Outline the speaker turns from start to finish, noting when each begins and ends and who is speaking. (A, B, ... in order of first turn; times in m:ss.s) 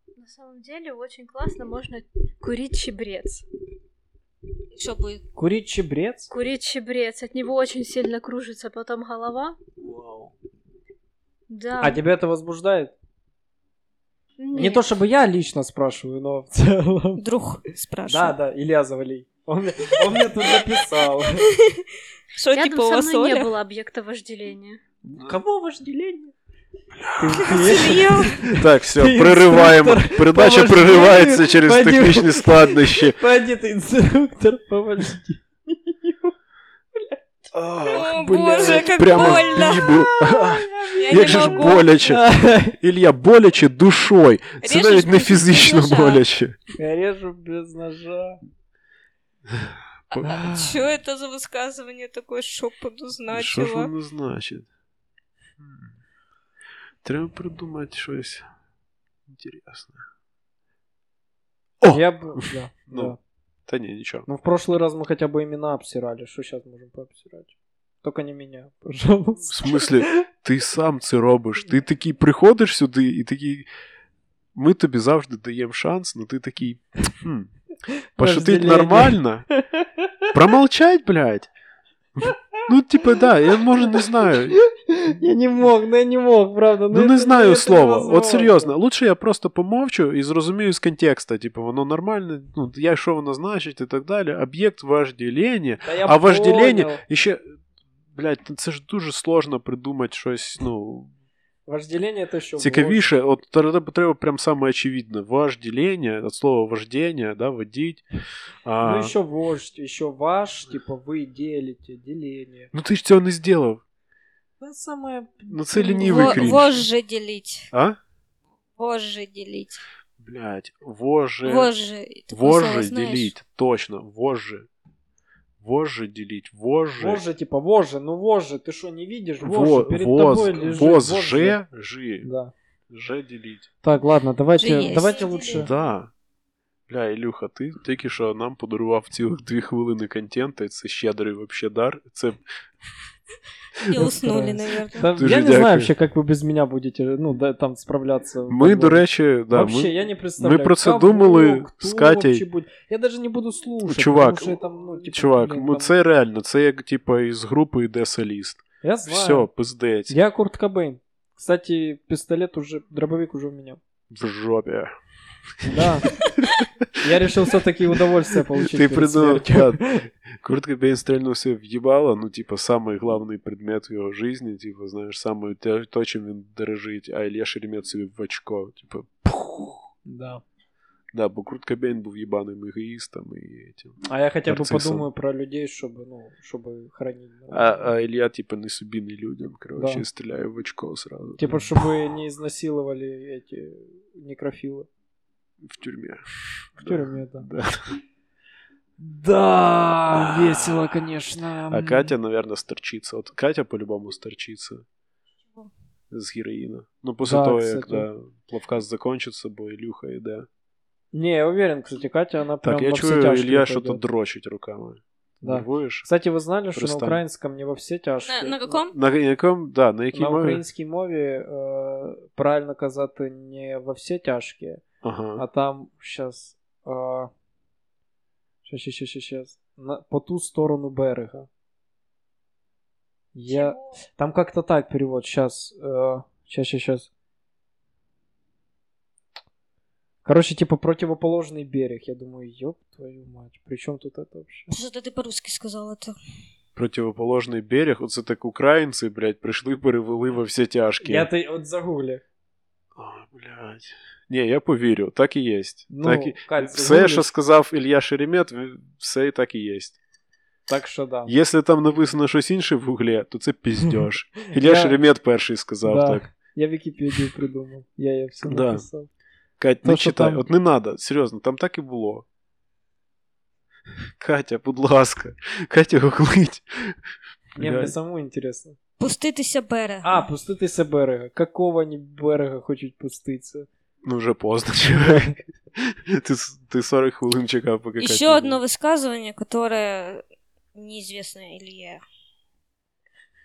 0:00.2-0:03.4 A
0:04.7-0:05.2 B
0:05.3-0:06.3 C
0:06.3-0:09.6 A
0:09.9-0:10.3 C
0:11.5-0:12.0 A
0:11.8-0:12.9 C
0:14.4-0:14.8 A
0:14.5-0:17.2 C
0:17.2-0:18.4 B
0:18.1-0:21.5 C
0:21.4-0:23.5 B
0:22.5-0:24.8 A
0:25.0-0:26.3 C
0:27.0-0:33.2 D
0:27.2-0:36.3 C
0:27.4-0:28.5 B
0:37.5-0:46.6 D
0:37.7-0:42.8 C
0:37.9-0:40.1 B
0:41.0-0:41.9 B
0:44.6-0:46.2 B
0:46.8-0:48.4 C
0:49.5-0:50.4 D
0:50.1-0:53.9 B
0:50.2-0:50.7 C
0:53.3-0:54.7 D
0:55.6-0:55.9 D
0:57.0-0:58.4 D
0:59.3-1:00.0 D
1:01.8-1:03.1 D
1:01.9-1:03.2 C
1:03.7-1:04.3 D
1:04.2-1:10.2 C
1:09.5-1:13.7 D
1:14.5-1:17.5 D
1:18.2-1:20.1 C
1:18.2-1:19.4 D
1:20.3-1:21.5 D
1:22.2-1:24.6 D
1:24.5-1:28.7 C
1:26.9-1:37.4 D
1:35.8-1:37.0 C
1:38.1-1:41.1 D
1:41.7-1:43.0 C
1:42.6-1:48.0 D
1:48.6-1:49.1 D
1:48.8-1:52.7 C
1:52.7-1:53.8 D
1:54.6-1:56.8 C
1:55.5-1:56.8 D
1:55.9-1:57.7 B
1:57.7-1:58.0 D
1:58.8-1:59.8 B
2:00.2-2:01.7 D
2:01.4-2:03.3 B
2:02.3-2:04.7 D
2:05.6-2:07.2 D
2:07.0-2:11.6 C
2:09.4-2:12.3 D
2:12.2-2:12.5 C
2:12.9-2:13.7 D
2:13.8-2:15.7 C
2:14.6-2:15.3 B
2:14.7-2:15.7 A
2:15.5-2:16.1 D
2:16.9-2:22.4 D
2:23.8-2:25.1 B
2:23.9-2:35.9 C
2:25.1-2:25.9 D
2:28.5-2:32.4 D
2:33.8-2:40.2 D
2:38.8-2:39.5 C
2:40.1-2:43.8 C
2:44.1-2:44.9 D
2:45.6-2:46.7 D
2:45.6-2:46.1 C
2:47.0-2:50.0 C
2:48.5-2:59.9 D
3:00.0-3:00.4 C
3:01.1-3:05.1 D
3:04.0-3:07.9 C
3:07.5-3:11.7 D
3:09.8-3:10.0 C
3:11.4-3:14.9 C
3:15.6-3:18.0 D
3:16.8-3:17.5 C
3:19.0-3:22.1 C
3:20.1-3:20.8 D
3:21.7-3:24.8 D
3:26.1-3:30.5 D
3:27.2-3:28.1 C
3:31.1-3:34.0 C
3:32.6-3:36.1 D
3:35.4-3:38.8 C
3:36.7-3:37.2 D
3:38.3-3:38.9 B
3:38.9-3:40.6 D
3:40.1-3:44.8 C
3:45.0-3:45.4 D
3:45.4-3:47.3 C
3:48.6-3:51.5 C
3:53.3-3:57.1 C
4:00.2-4:04.7 C
4:04.7-4:06.1 B
4:06.8-4:11.3 D
4:11.0-4:12.2 C
4:13.0-4:20.0 D
4:15.9-4:17.3 C
4:20.7-4:21.3 C
4:21.2-4:26.2 D
4:24.5-4:24.9 C
4:25.8-4:29.1 C
4:28.4-4:28.8 D
4:29.6-4:32.2 D
4:29.8-4:30.4 C
4:34.2-4:37.0 D
4:37.5-4:37.9 D
4:37.6-4:38.8 C
4:39.0-4:40.2 B
4:40.0-4:43.7 C
4:44.0-4:48.6 D
4:45.0-4:45.3 C
4:48.0-4:50.2 B
4:50.7-4:52.0 B